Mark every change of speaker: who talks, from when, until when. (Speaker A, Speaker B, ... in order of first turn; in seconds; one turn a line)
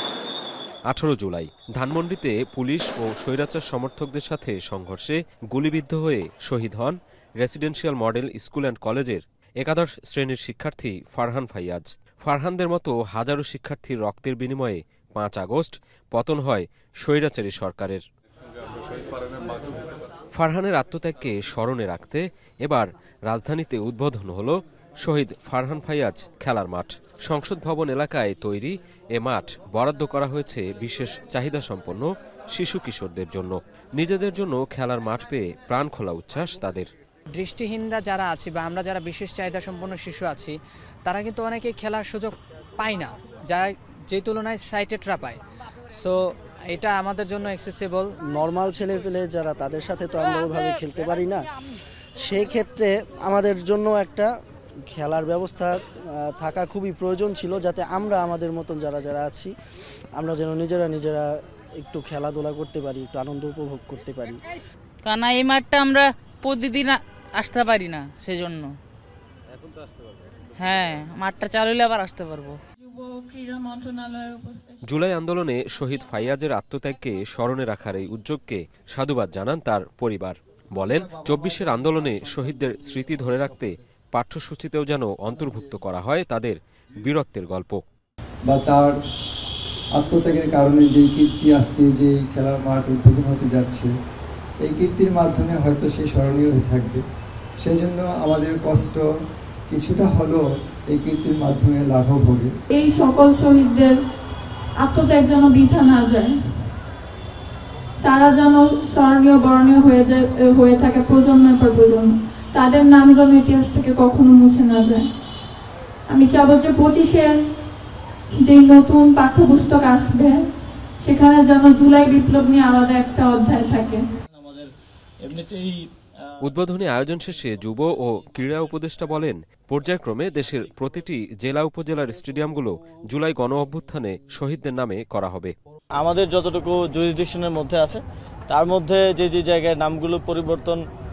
Speaker A: 0.9-18.0
Speaker A: 20.3-36.9
Speaker B: 37.3-45.4
Speaker B: 45.9-48.1
Speaker C: 48.3-54.3
Speaker C: 54.9-59.5
Speaker C: 60.1-64.5
Speaker D: 65.0-68.7
Speaker D: 70.6-72.6
Speaker E: 72.8-74.8
Speaker A: 74.8-87.8
Speaker F: 80.8-83.8
Speaker F: 85.4-85.8
Speaker F: 88.5-88.9
Speaker F: 89.9-93.9
Speaker F: 94.6-97.0
Speaker F: 97.6-99.0
Speaker F: 99.7-102.5
Speaker E: 102.7-103.9
Speaker E: 104.8-106.7
Speaker E: 108.0-115.1
Speaker E: 116.1-117.4
Speaker E: 118.4-120.4
Speaker E: 121.0-124.0
Speaker G: 124.4-124.7
Speaker G: 125.2-125.8
Speaker A: 126.4-135.5
Speaker G: 136.0-140.8